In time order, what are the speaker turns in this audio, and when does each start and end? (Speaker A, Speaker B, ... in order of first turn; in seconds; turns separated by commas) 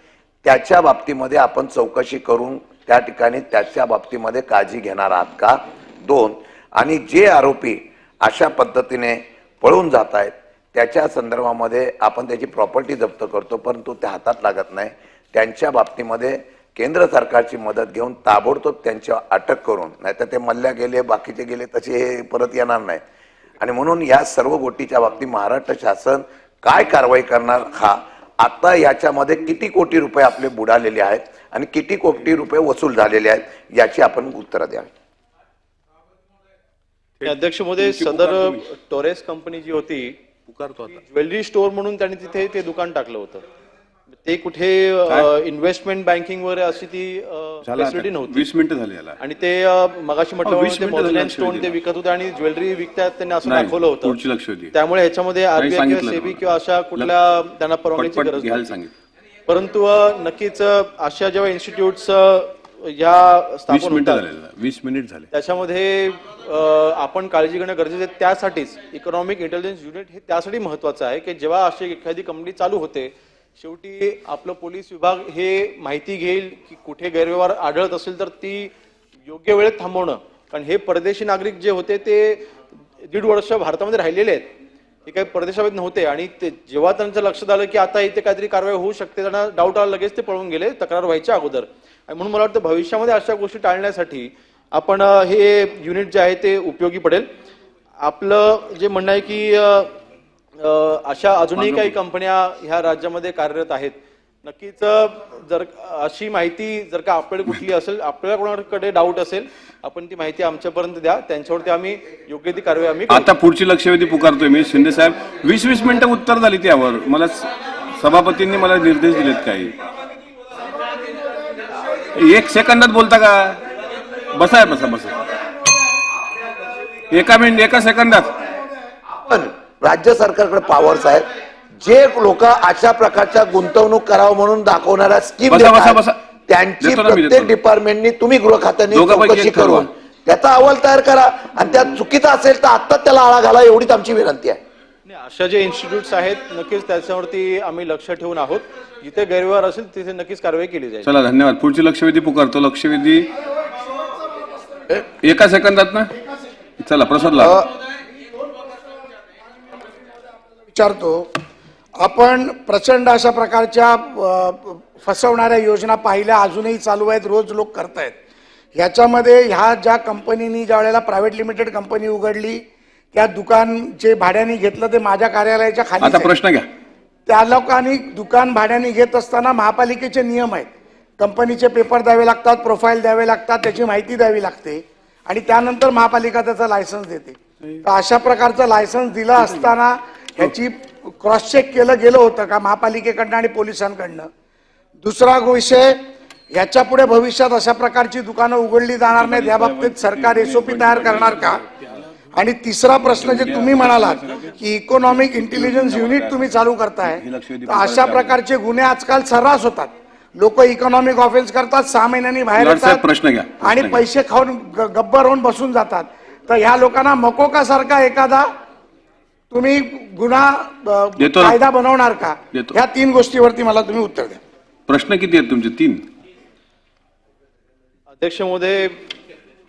Speaker A: 0.4-23.0, Speaker A: 23.6-34.9, Speaker B: 37.2-38.6, Speaker C: 37.2-40.2, Speaker B: 40.5-41.0, Speaker C: 40.9-43.4, Speaker C: 44.1-48.5, Speaker B: 47.6-49.2, Speaker C: 49.2-54.2, Speaker B: 50.4-51.7, Speaker B: 53.4-54.7, Speaker C: 54.7-58.8, Speaker B: 55.5-56.4, Speaker B: 58.0-58.9, Speaker C: 59.5-64.2, Speaker B: 63.7-65.3, Speaker C: 65.3-78.7, Speaker C: 79.2-82.5, Speaker C: 83.0-84.5, Speaker C: 85.0-97.3, Speaker C: 98.0-99.9, Speaker C: 100.5-113.3, Speaker B: 101.7-101.9, Speaker B: 113.1-119.8, Speaker B: 122.1-123.6, Speaker B: 124.3-125.2, Speaker B: 127.1-128.3, Speaker A: 129.1-144.6, Speaker B: 135.5-136.2, Speaker B: 136.8-137.6, Speaker B: 138.9-139.9, Speaker C: 145.1-151.1, Speaker B: 151.0-153.3, Speaker B: 154.9-156.1, Speaker B: 156.8-157.7, Speaker D: 160.7-161.4, Speaker D: 162.0-168.2, Speaker D: 168.7-176.3, Speaker B: 176.0-176.7, Speaker D: 177.3-180.7, Speaker D: 181.2-194.3, Speaker D: 195.0-201.6, Speaker B: 199.2-201.6, Speaker D: 202.3-213.1, Speaker B: 203.2-204.4, Speaker B: 205.4-206.4, Speaker B: 207.0-208.3, Speaker B: 212.5-214.0, Speaker D: 213.6-218.5, Speaker D: 219.5-224.4, Speaker B: 221.2-221.6, Speaker B: 224.9-226.0, Speaker C: 228.1-229.1